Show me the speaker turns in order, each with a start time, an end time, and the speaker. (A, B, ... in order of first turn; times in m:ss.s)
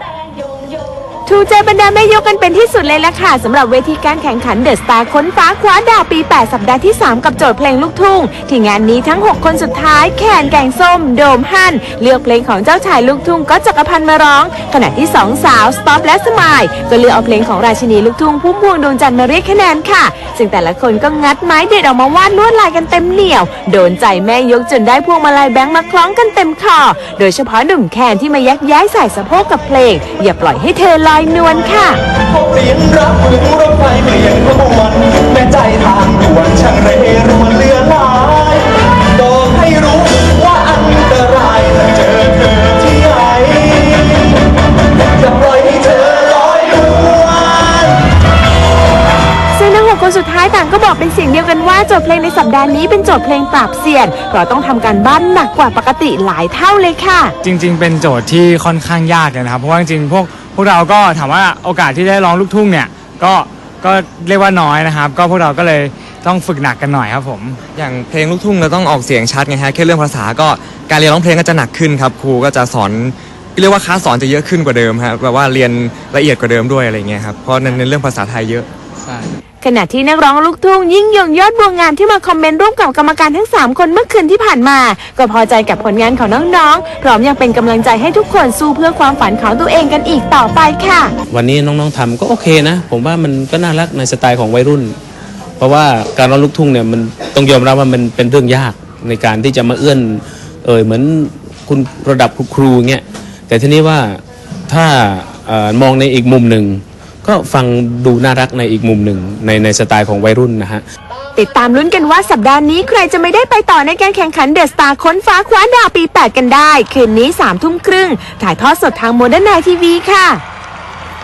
0:01.3-0:32.0 A
0:32.3-0:44.3 B
0:45.2-0:48.0 B
0:49.6-0:57.3 A
0:57.4-1:07.6 C
1:07.8-1:18.7 D
1:19.6-1:31.1 A
1:31.3-1:35.0 E
1:35.6-1:50.8 E
1:51.4-2:00.4 A